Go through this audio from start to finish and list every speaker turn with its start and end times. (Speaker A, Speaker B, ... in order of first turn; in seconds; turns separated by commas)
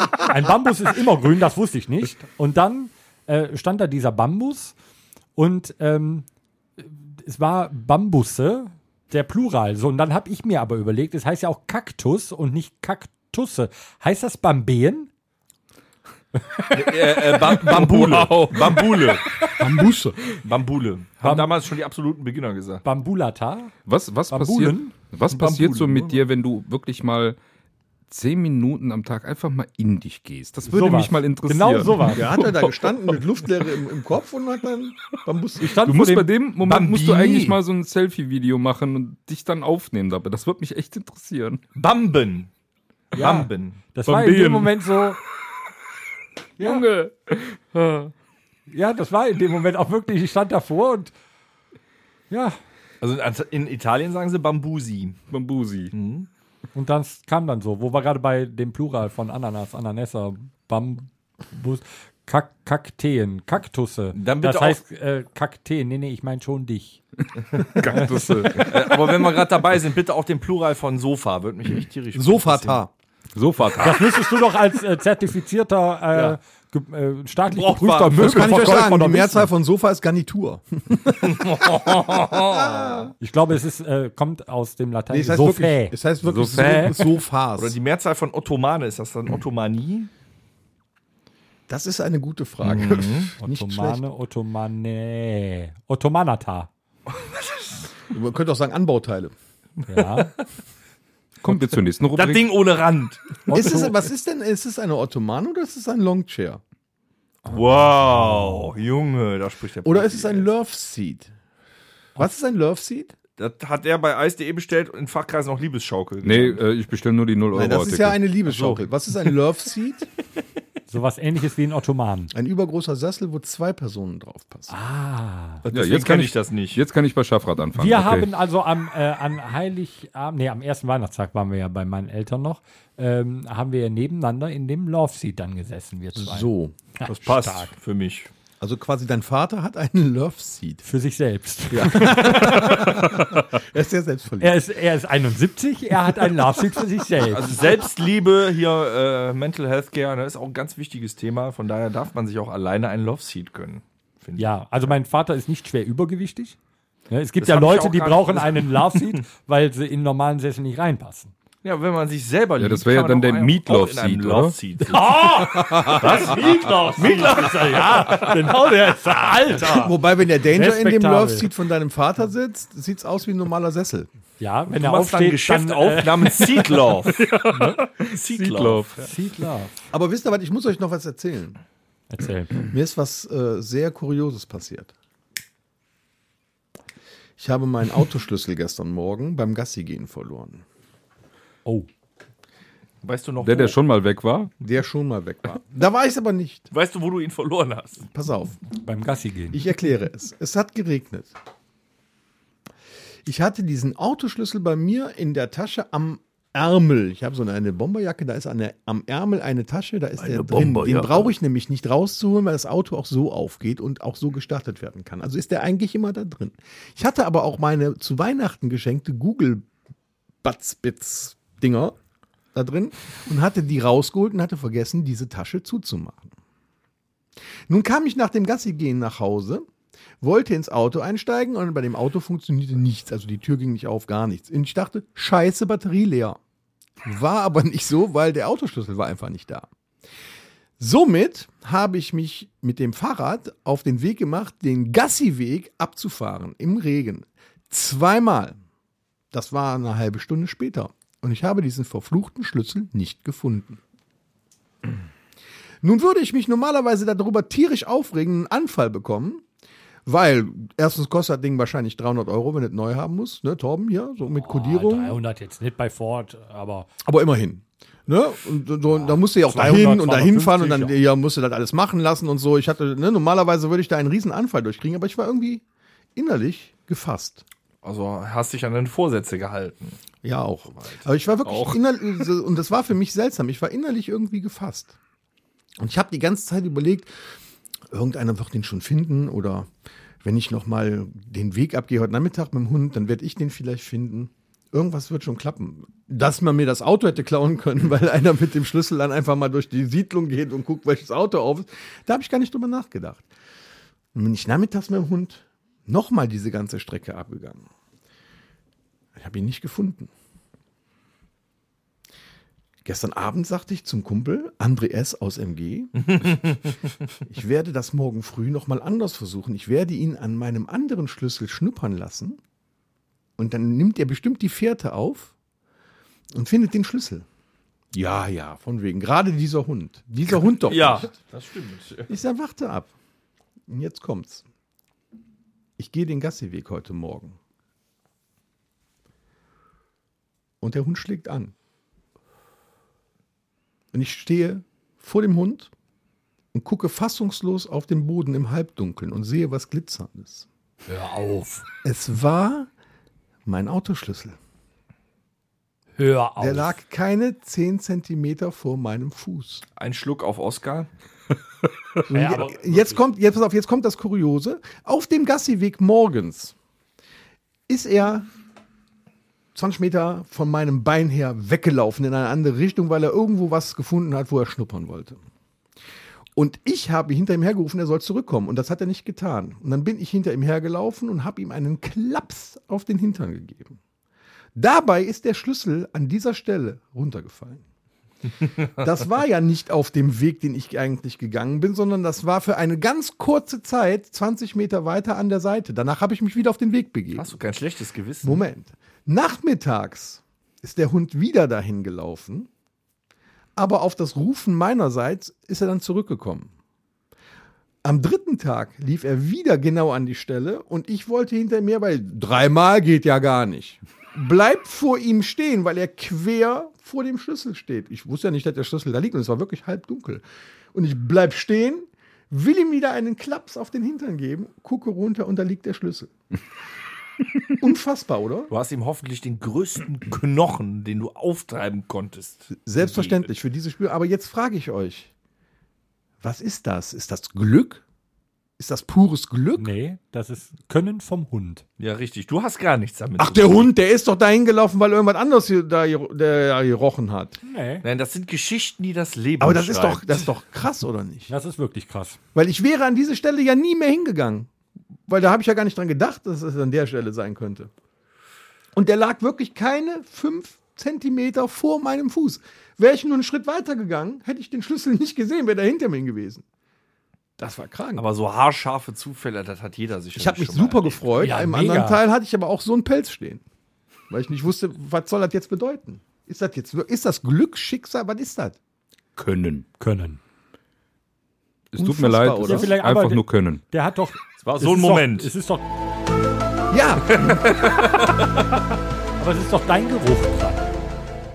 Speaker A: 0.1-4.7, Speaker A: 5.3-6.2, Speaker A: 6.8-15.1, Speaker B: 16.7-19.2, Speaker C: 17.5-20.2, Speaker D: 19.6-20.1, Speaker B: 20.4-22.8, Speaker A: 21.2-21.5, Speaker A: 22.8-23.7, Speaker C: 23.9-27.4, Speaker A: 24.3-24.9, Speaker B: 25.3-26.2, Speaker C: 28.1-33.1, Speaker A: 30.6-32.4, Speaker D: 32.1-35.8, Speaker A: 35.6-36.3, Speaker C: 35.8-41.6, Speaker B: 36.6-37.6, Speaker B: 41.7-42.5, Speaker A: 43.1-45.2, Speaker B: 43.1-43.8, Speaker C: 44.0-44.8, Speaker A: 46.6-46.8, Speaker C: 46.6-48.1, Speaker A: 48.7-51.1, Speaker A: 52.3-52.5, Speaker B: 53.0-55.2, Speaker C: 55.3-55.9, Speaker B: 55.9-56.3, Speaker A: 56.7-67.0, Speaker B: 64.1-64.8, Speaker C: 67.6-69.1, Speaker A: 67.9-68.4, Speaker B: 68.6-72.8, Speaker D: 72.1-72.9, Speaker C: 73.3-74.1, Speaker A: 73.8-79.5, Speaker B: 77.5-78.5, Speaker D: 78.1-83.1, Speaker B: 81.2-83.0, Speaker A: 83.2-85.9, Speaker D: 85.1-87.8, Speaker C: 86.2-87.0, Speaker B: 87.6-90.1, Speaker D: 91.7-94.0, Speaker B: 92.6-93.3, Speaker A: 93.4-96.7, Speaker B: 97.1-97.8, Speaker D: 98.1-99.3, Speaker A: 99.9-100.3, Speaker B: 100.0-100.3, Speaker C: 101.4-102.5, Speaker B: 102.1-103.5, Speaker A: 103.5-104.0, Speaker D: 103.5-106.6, Speaker B: 107.4-110.5, Speaker D: 109.8-111.3, Speaker D: 112.2-113.1, Speaker B: 113.4-116.6, Speaker C: 116.2-118.2, Speaker D: 117.5-120.1, Speaker B: 118.5-118.8, Speaker A: 120.9-122.3, Speaker D: 122.3-124.7, Speaker A: 124.7-125.6, Speaker B: 125.6-126.8, Speaker C: 125.7-128.3, Speaker A: 127.8-137.7, Speaker D: 136.2-136.8, Speaker B: 137.1-138.3, Speaker D: 138.6-140.8, Speaker A: 140.8-143.2, Speaker D: 141.7-144.5, Speaker A: 144.4-147.6, Speaker B: 147.2-154.5, Speaker A: 154.4-156.6, Speaker A: 157.1-161.3, Speaker B: 157.4-159.2, Speaker B: 161.6-168.4, Speaker C: 162.6-164.5, Speaker A: 164.9-169.9, Speaker D: 165.4-166.2, Speaker D: 169.7-174.1, Speaker A: 170.4-171.5, Speaker A: 174.4-176.7, Speaker B: 174.7-177.2, Speaker C: 177.1-179.1, Speaker A: 177.5-177.8, Speaker B: 178.0-178.9, Speaker A: 179.0-179.7, Speaker D: 179.9-181.6, Speaker A: 182.1-182.6, Speaker D: 182.6-184.9, Speaker D: 187.4-190.6, Speaker B: 193.0-193.8, Speaker C: 193.4-194.5, Speaker D: 194.6-196.7, Speaker B: 196.7-198.1, Speaker D: 198.1-198.6, Speaker A: 198.8-199.6, Speaker D: 199.5-201.3, Speaker D: 203.2-219.7, Speaker C: 210.2-211.2, Speaker B: 210.3-211.2, Speaker D: 220.4-221.9, Speaker D: 222.5-226.3, Speaker D: 227.7-229.6, Speaker D: 230.2-236.4, Speaker D: 237.0-239.7, Speaker D: 240.8-248.6, Speaker D: 249.3-253.8, Speaker D: 255.8-259.4, Speaker D: 260.1-265.2, Speaker A: 264.2-266.9, Speaker D: 267.0-275.6, Speaker A: 268.9-271.0, Speaker D: 276.1-277.4, Speaker B: 277.8-280.0, Speaker D: 280.2-284.9, Speaker C: 281.4-281.8, Speaker D: 285.8-287.1, Speaker D: 287.9-289.7, Speaker D: 290.2-303.3, Speaker D: 304.1-307.6, Speaker D: 309.2-310.1, Speaker D: 312.8-316.5, Speaker B: 316.0-316.8, Speaker D: 317.2-322.4, Speaker D: 323.4-325.3, Speaker D: 326.3-327.2, Speaker D: 327.9-331.1, Speaker B: 330.3-332.1, Speaker D: 332.1-332.9, Speaker D: 333.7-334.4, Speaker D: 335.8-337.4, Speaker D: 340.6-341.5, Speaker D: 343.9-345.7, Speaker D: 346.5-350.4, Speaker A: 350.9-351.6, Speaker D: 351.8-352.7, Speaker D: 353.4-354.4, Speaker A: 356.0-356.8, Speaker D: 356.4-359.6, Speaker B: 359.8-360.9, Speaker D: 362.1-366.5, Speaker A: 362.1-363.0, Speaker D: 367.7-368.3, Speaker D: 369.5-375.2, Speaker D: 376.4-383.8, Speaker D: 384.6-387.6, Speaker D: 388.7-397.3, Speaker B: 397.1-398.4, Speaker D: 398.2-402.5, Speaker D: 403.6-406.5, Speaker D: 407.8-420.2, Speaker D: 420.7-426.1, Speaker D: 427.6-428.5, Speaker B: 428.5-433.3, Speaker D: 432.6-435.1, Speaker D: 436.2-437.8, Speaker D: 438.6-439.7, Speaker A: 439.6-441.6, Speaker B: 441.8-443.7, Speaker D: 443.2-447.4, Speaker A: 447.4-447.8, Speaker B: 447.8-450.3, Speaker D: 449.4-451.3, Speaker A: 451.3-452.2, Speaker D: 452.3-454.5, Speaker D: 455.1-457.7, Speaker D: 458.7-466.4, Speaker D: 467.4-468.0, Speaker B: 468.0-471.0, Speaker D: 470.1-473.4, Speaker A: 471.2-472.0, Speaker D: 474.1-478.6, Speaker C: 479.1-479.6, Speaker A: 479.8-480.2, Speaker C: 481.7-483.6, Speaker D: 481.8-482.7, Speaker A: 482.4-485.6, Speaker B: 484.4-485.3, Speaker D: 486.7-487.4, Speaker B: 487.1-488.1, Speaker A: 489.2-490.8